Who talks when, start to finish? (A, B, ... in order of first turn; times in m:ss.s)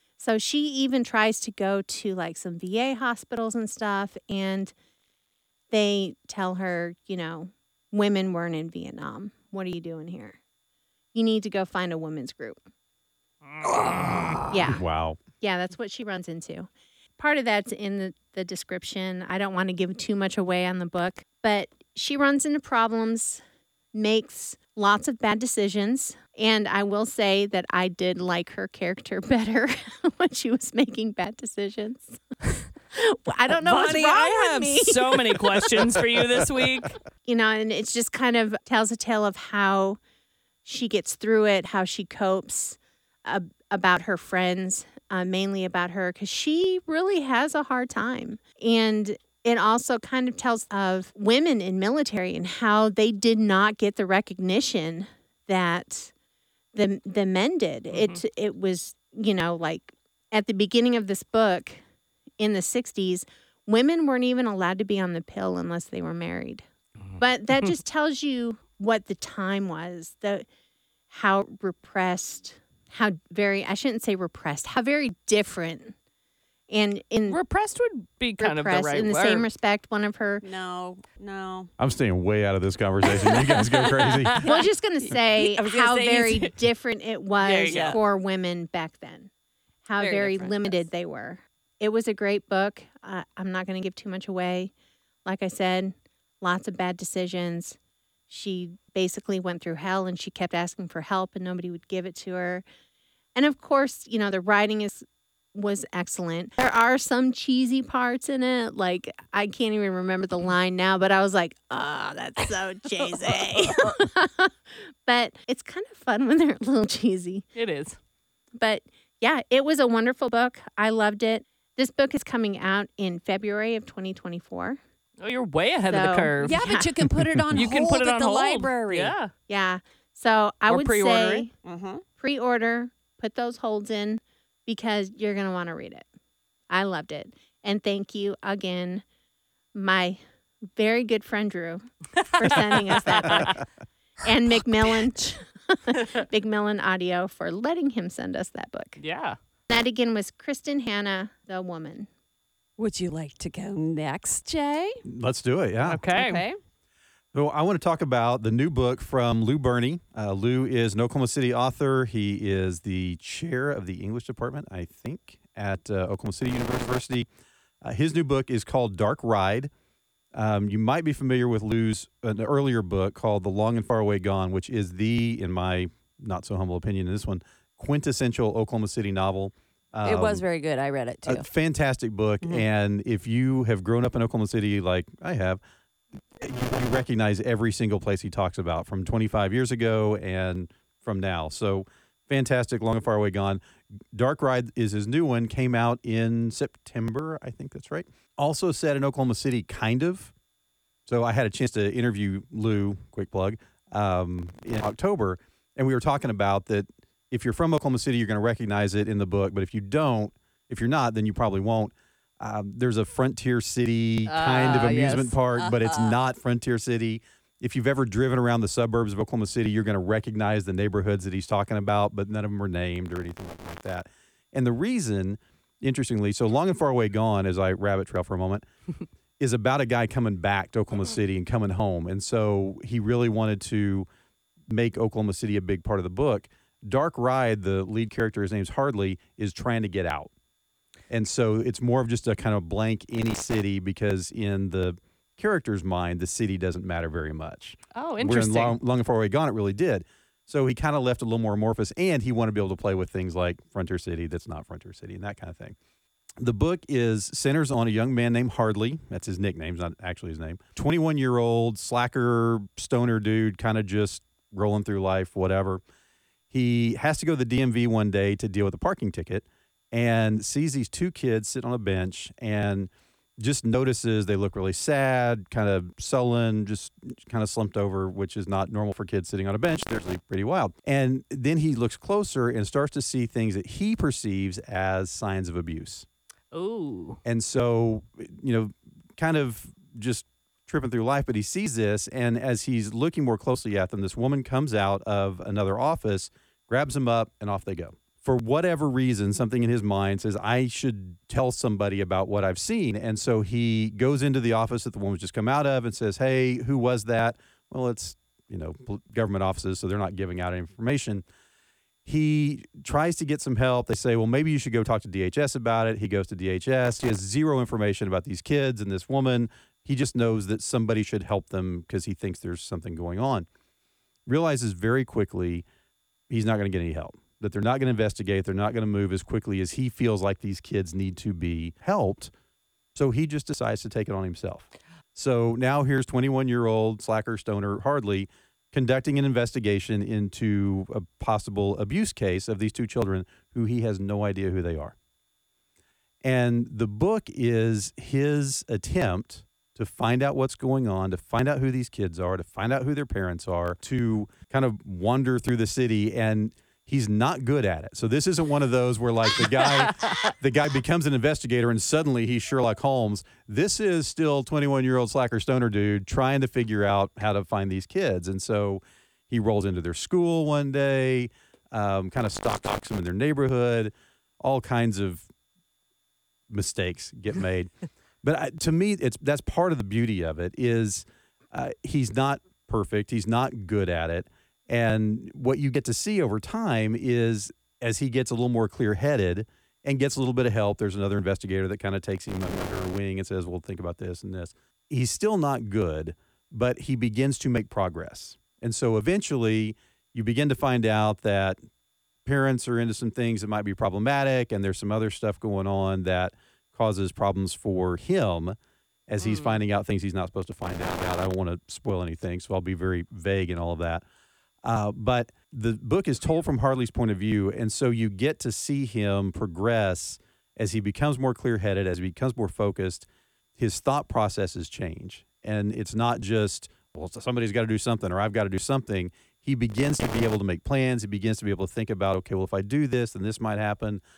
0:00.2-0:04.7 A
0:05.7-0:10.4 A
0:11.1-0:12.6 A
0:13.5-0:14.5 B
0:14.5-0:14.8 A
0:14.7-0:15.2 C
0:15.4-0:23.4 A
0:23.9-0:32.2 A
0:32.9-0:35.7 A
0:33.5-0:37.0 B
0:37.3-0:40.0 A
0:40.6-0:56.1 A
0:56.7-1:01.8 A
0:57.9-0:58.2 B
1:02.4-1:06.6 A
1:07.2-1:10.4 A
1:11.1-1:16.0 A
1:16.7-1:17.4 A
1:17.3-1:19.5 B
1:18.4-1:20.4 A
1:20.4-1:21.7 D
1:21.8-1:24.4 C
1:23.2-1:24.5 B
1:24.4-1:29.3 A
1:25.1-1:26.6 D
1:27.4-1:28.0 B
1:27.7-1:28.0 D
1:29.9-1:34.7 A
1:30.0-1:30.8 D
1:35.2-1:37.8 A
1:38.3-1:42.6 A
1:43.4-1:57.5 A
1:57.6-1:58.0 B
1:58.6-2:04.8 A
2:05.2-2:06.8 B
2:05.9-2:06.9 A
2:06.4-2:09.1 D
2:07.5-2:09.3 B
2:09.5-2:11.5 A
2:10.7-2:11.5 B
2:11.6-2:12.0 D
2:12.2-2:16.1 A
2:16.7-2:19.0 A
2:19.8-2:20.2 A
2:20.8-2:23.6 A
2:22.4-2:23.6 B
2:24.2-2:29.0 A
2:29.0-2:29.4 B
2:29.7-2:32.1 A
2:32.8-2:35.0 D
2:35.1-2:36.0 C
2:35.9-2:36.4 B
2:36.1-2:36.6 D
2:37.3-2:47.3 C
2:47.8-2:49.7 C
2:50.4-3:00.4 C
3:00.0-3:01.5 D
3:01.2-3:05.6 C
3:06.4-3:13.6 C
3:14.1-3:20.3 C
3:21.1-3:48.6 C
3:34.3-3:35.4 B
3:35.6-3:36.2 D
3:49.4-3:54.1 C
3:54.7-4:00.3 C
4:01.1-4:15.8 C
4:07.9-4:08.8 B
4:16.4-4:25.8 C
4:26.5-4:46.1 C
4:46.5-4:47.2 B
4:47.2-5:11.2 C
5:12.0-5:23.5 C
5:24.3-5:25.6 C
5:26.3-5:32.3 C
5:33.0-5:44.9 C
5:46.2-6:15.3 C
6:00.0-6:00.3 B
6:16.5-6:17.7 C
6:18.2-6:41.6 C
6:42.2-6:48.6 C
6:49.1-6:54.0 C
6:49.2-6:49.6 B
6:54.6-7:03.1 C
7:03.6-7:14.0 C